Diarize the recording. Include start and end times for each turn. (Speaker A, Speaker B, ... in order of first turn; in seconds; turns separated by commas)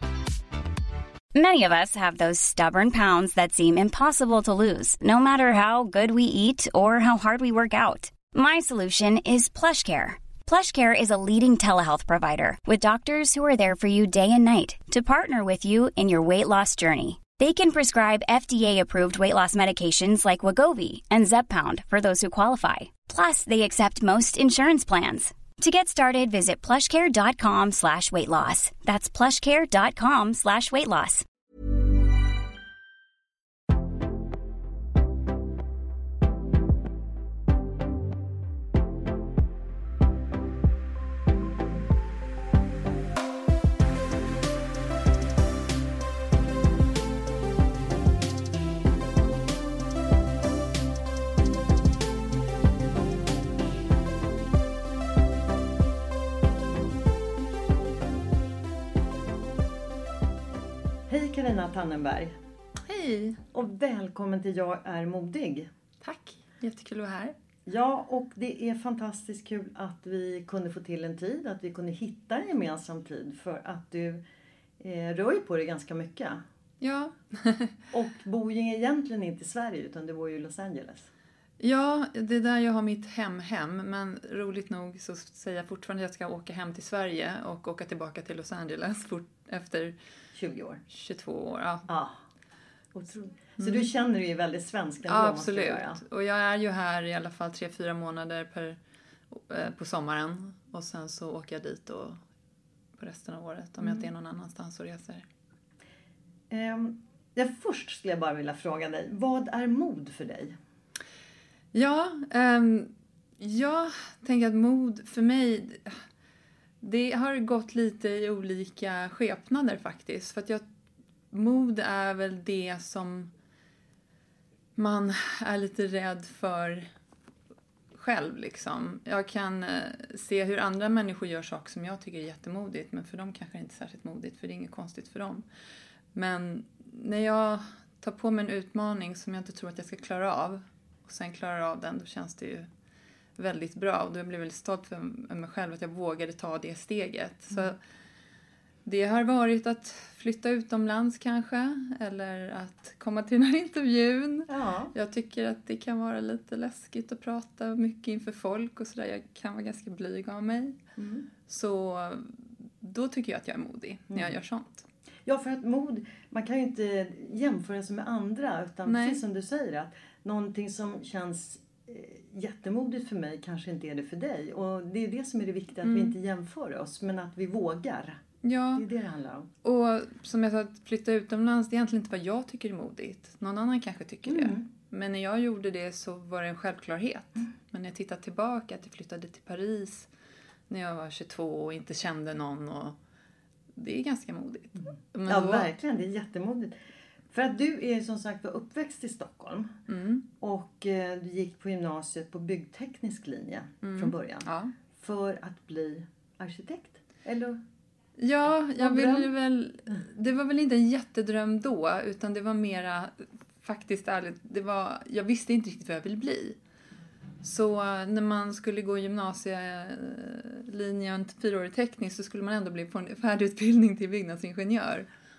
Speaker A: 1.3-31.2, Speaker B: 61.1-62.3, Speaker C: 62.9-63.4, Speaker B: 63.5-65.7, Speaker C: 66.0-67.3, Speaker B: 67.7-74.2, Speaker B: 74.8-76.4, Speaker C: 76.8-77.8, Speaker B: 77.9-81.1, Speaker C: 81.6-90.0, Speaker B: 90.3-90.8, Speaker C: 90.9-91.9, Speaker B: 91.9-92.2, Speaker B: 92.9-96.0, Speaker C: 93.6-93.9, Speaker C: 95.0-98.8, Speaker C: 99.3-102.2, Speaker C: 103.0-105.2, Speaker B: 103.8-104.1, Speaker B: 106.5-110.6, Speaker C: 111.7-116.0, Speaker C: 116.8-120.6, Speaker C: 121.3-123.3, Speaker C: 124.8-126.9, Speaker C: 127.9-135.5, Speaker C: 136.1-142.7, Speaker C: 143.4-147.8, Speaker C: 148.8-160.8, Speaker B: 154.5-154.9, Speaker B: 161.0-161.3, Speaker C: 161.5-164.9, Speaker B: 164.1-164.4, Speaker B: 165.2-178.2, Speaker C: 168.9-169.2, Speaker C: 175.8-176.2, Speaker C: 178.4-178.9, Speaker B: 178.8-179.5, Speaker C: 179.6-190.1, Speaker B: 184.2-184.7, Speaker C: 190.7-193.0, Speaker C: 193.8-195.7, Speaker B: 195.3-196.8, Speaker B: 197.3-199.8, Speaker C: 199.9-200.2, Speaker B: 200.4-207.6, Speaker C: 203.8-204.7, Speaker C: 208.2-216.6, Speaker B: 208.8-209.3, Speaker C: 217.4-225.1